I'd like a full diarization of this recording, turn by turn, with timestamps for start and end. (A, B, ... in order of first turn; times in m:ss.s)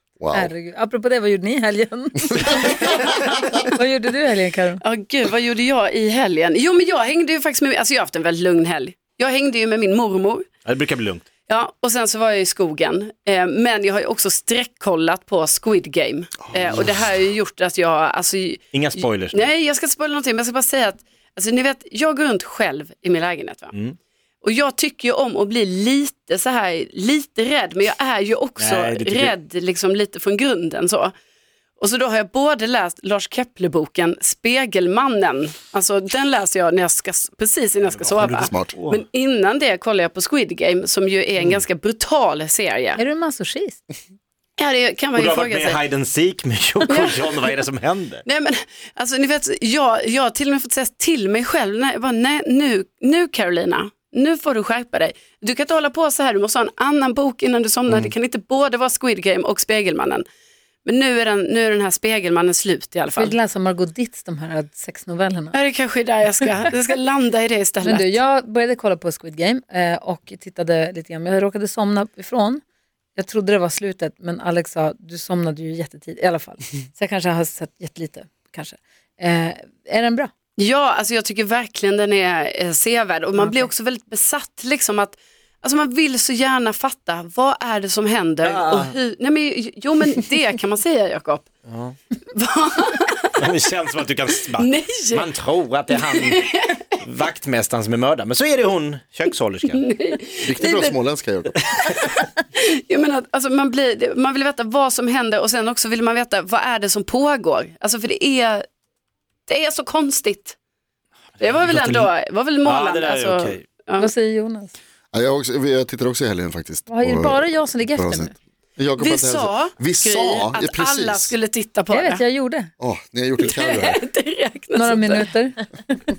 0:00.2-0:00.5 A
0:00.3-0:04.8 B
0:04.8-0:10.5 C
0:10.6-0:11.3 D
0:11.5-0:23.7 C
0:18.7-0:19.5 D
0:24.4-0:31.2 C
0:28.6-0:29.4 D
0:31.8-0:43.0 C
0:37.8-0:39.0 D
0:38.2-0:38.8 A
0:43.0-0:43.8 B
0:44.6-0:45.8 C
0:45.1-0:48.2 D
0:46.9-0:47.2 C
0:48.3-1:00.3 C
1:00.8-1:03.4 C
1:03.2-1:05.6 B
1:05.5-1:08.2 C
1:07.8-1:12.6 B
1:13.2-1:20.3 B
1:20.6-1:31.5 C
1:28.4-1:28.9 D
1:31.7-1:32.0 D
1:32.3-1:33.3 C
1:33.4-1:36.5 D
1:34.5-1:35.3 C
1:35.9-1:37.0 C
1:37.0-1:39.8 D
1:39.7-1:40.9 C
1:40.4-1:41.6 A
1:41.6-1:41.9 D
1:41.9-1:48.6 C
1:49.5-1:50.6 C
1:51.4-1:52.1 D
1:51.4-1:54.1 C
1:52.6-1:53.6 D
1:54.0-1:54.8 B
1:55.1-2:01.4 A
1:56.9-1:58.3 B
1:59.0-2:02.2 C
2:01.9-2:02.7 B
2:02.8-2:04.0 A
2:03.4-2:05.2 C
2:04.7-2:05.7 B